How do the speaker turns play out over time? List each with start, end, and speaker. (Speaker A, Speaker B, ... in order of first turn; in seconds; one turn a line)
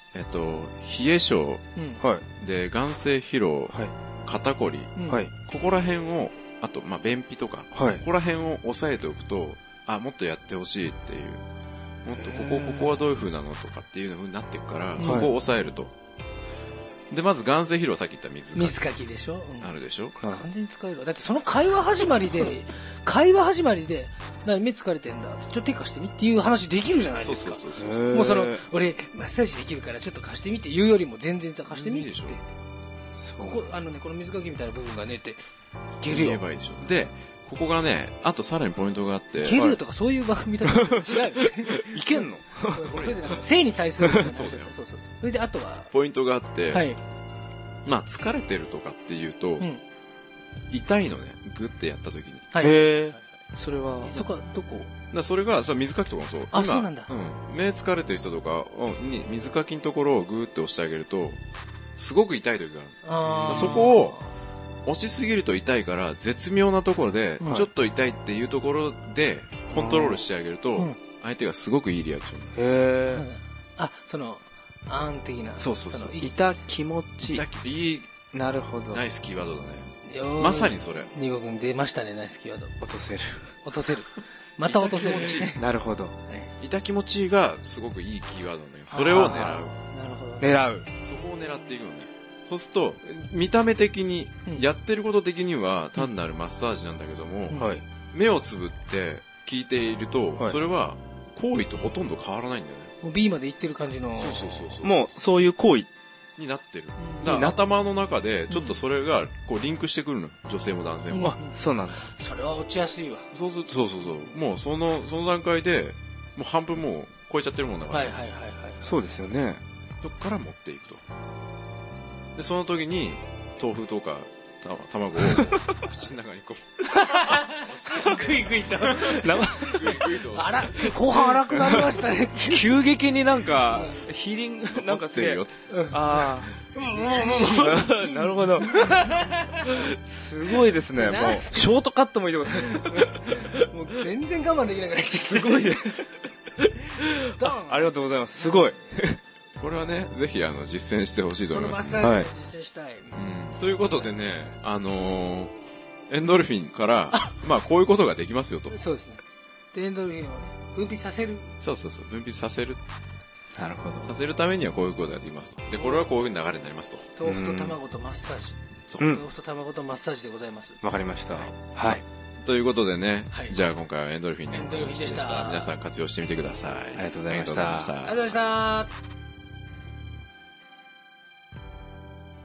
Speaker A: 0.1-1.6
Speaker B: 1.8-2.0
Speaker A: 2.4-11.4
Speaker B: 5.0-5.2
Speaker C: 7.7-8.0
Speaker A: 12.0-15.9
Speaker C: 12.6-12.8
Speaker B: 15.0-15.3
Speaker C: 15.0-15.3
Speaker A: 17.1-18.8
Speaker B: 18.6-32.4
Speaker A: 19.6-20.2
Speaker C: 20.2-20.4
Speaker A: 27.2-28.2
Speaker C: 27.8-28.6
Speaker A: 31.7-32.4
Speaker C: 33.2-33.6
Speaker B: 33.4-35.4
Speaker B: 36.0-36.4
Speaker A: 36.1-39.6
Speaker B: 39.4-45.9
Speaker C: 39.5-39.8
Speaker C: 40.8-41.1
Speaker C: 41.7-42.9
Speaker A: 44.2-44.7
Speaker A: 45.9-46.9
Speaker B: 46.7-47.0
Speaker A: 47.9-49.7
Speaker A: 50.7-52.5
Speaker B: 52.5-53.3
Speaker C: 52.6-54.3
Speaker B: 54.0-54.9
Speaker A: 55.1-61.4
Speaker B: 56.5-57.1
Speaker A: 62.0-64.2
Speaker B: 63.0-64.3
Speaker C: 63.3-63.9
Speaker A: 64.8-72.6
Speaker C: 69.7-70.2
Speaker C: 72.6-73.2
Speaker B: 73.1-76.6
Speaker A: 75.6-76.3
Speaker C: 76.2-77.4
Speaker A: 77.2-78.3
Speaker C: 78.3-79.0
Speaker A: 78.9-81.1
Speaker B: 80.0-82.8
Speaker C: 82.8-83.5
Speaker B: 83.6-85.6
Speaker A: 84.6-85.6
Speaker C: 85.0-86.1
Speaker A: 86.6-89.8
Speaker C: 88.9-89.6
Speaker B: 88.9-90.6
Speaker C: 90.4-90.9
Speaker A: 91.0-102.9
Speaker B: 97.5-97.8
Speaker C: 97.6-97.8
Speaker B: 103.0-104.9
Speaker A: 104.2-104.9
Speaker C: 104.8-105.9
Speaker A: 106.4-111.3
Speaker B: 107.0-107.3
Speaker C: 107.2-107.6
Speaker B: 108.5-108.8
Speaker B: 111.1-113.3
Speaker C: 111.2-112.0
Speaker A: 113.3-118.2
Speaker B: 117.9-118.8
Speaker C: 118.8-119.6
Speaker A: 120.0-121.0
Speaker A: 122.4-131.2
Speaker C: 125.3-125.7
Speaker B: 126.9-132.7
Speaker C: 128.1-130.1
Speaker C: 131.1-131.9
Speaker C: 132.5-136.5
Speaker B: 133.7-134.0
Speaker A: 134.7-135.6
Speaker B: 135.7-139.9
Speaker C: 137.3-139.0
Speaker C: 139.7-143.7
Speaker B: 140.6-141.7
Speaker B: 142.5-146.1
Speaker C: 145.4-146.0
Speaker C: 146.6-149.2
Speaker B: 147.0-148.9
Speaker A: 149.6-152.1
Speaker B: 151.5-153.2
Speaker C: 152.0-152.3
Speaker A: 153.1-155.5
Speaker A: 156.1-158.8
Speaker B: 158.7-159.2
Speaker B: 159.7-161.5
Speaker A: 161.6-162.8
Speaker C: 163.6-164.1
Speaker A: 164.0-167.1
Speaker B: 165.8-166.1
Speaker B: 167.2-170.8
Speaker C: 167.2-167.8
Speaker C: 170.8-172.0
Speaker A: 171.8-178.3
Speaker B: 174.5-175.7
Speaker C: 176.9-177.9
Speaker B: 178.0-178.9